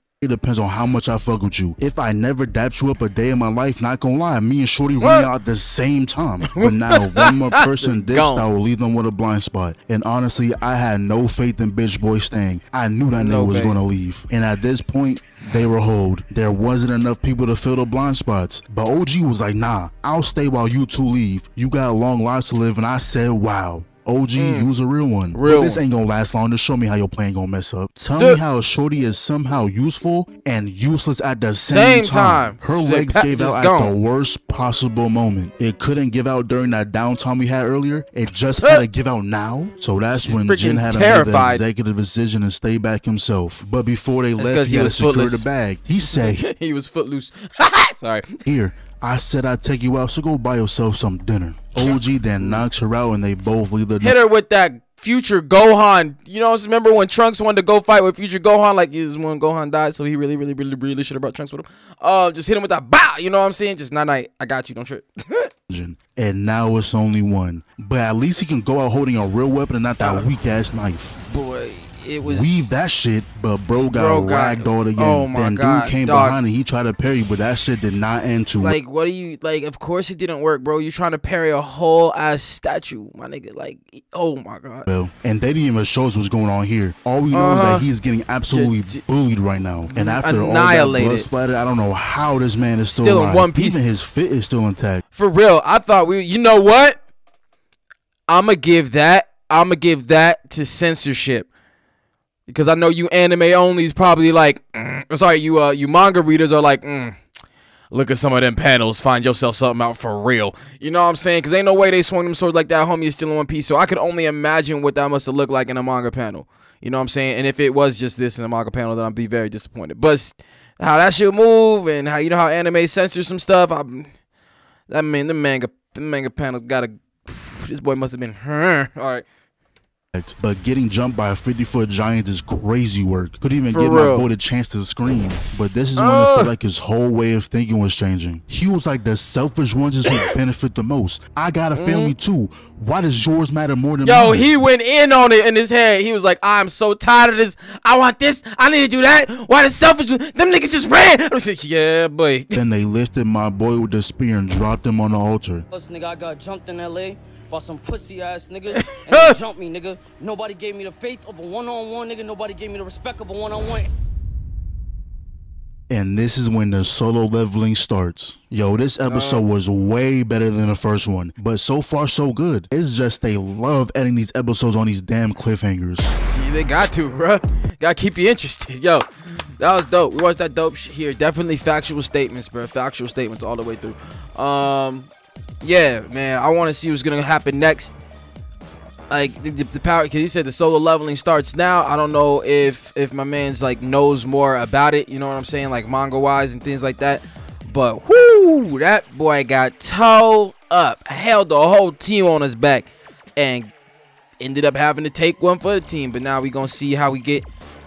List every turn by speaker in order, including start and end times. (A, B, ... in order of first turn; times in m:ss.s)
0:00.2-0:46.4 A
0:05.0-0:05.3 B
0:06.4-0:08.4 B
0:13.2-0:13.8 B
0:24.4-0:24.7 B
0:25.3-0:25.8 B
0:28.2-0:28.4 B
0:31.6-0:33.9 B
0:40.2-0:41.6 B
0:44.4-0:45.5 B
0:46.1-0:48.4 B
0:48.4-0:54.2 A
0:51.8-0:52.6 B
0:54.0-1:05.5 B
1:05.7-1:11.2 A
1:10.0-1:10.3 B
1:11.3-1:12.7 B
1:12.2-1:18.8 A
1:13.7-1:16.4 B
1:18.6-1:24.9 B
1:24.9-1:35.0 A
1:27.3-1:27.9 B
1:28.5-1:29.0 B
1:29.9-1:31.3 B
1:32.9-1:33.8 B
1:35.1-1:37.0 B
1:38.3-1:41.5 B
1:42.5-1:47.2 B
1:47.9-2:04.1 B
2:04.9-2:09.2 B
2:10.1-2:24.6 A
2:13.7-2:14.3 B
2:16.0-2:16.5 B
2:20.0-2:20.3 B
2:21.8-2:22.1 B
2:24.0-2:32.6 B
2:32.5-2:35.6 A
2:35.7-2:43.9 C
2:38.7-2:39.4 B
2:45.9-2:56.1 A
2:49.1-2:49.4 B
2:56.3-2:59.0 B
2:59.6-3:05.1 B
3:05.6-3:08.0 B
3:09.1-3:23.7 B
3:24.4-3:27.5 B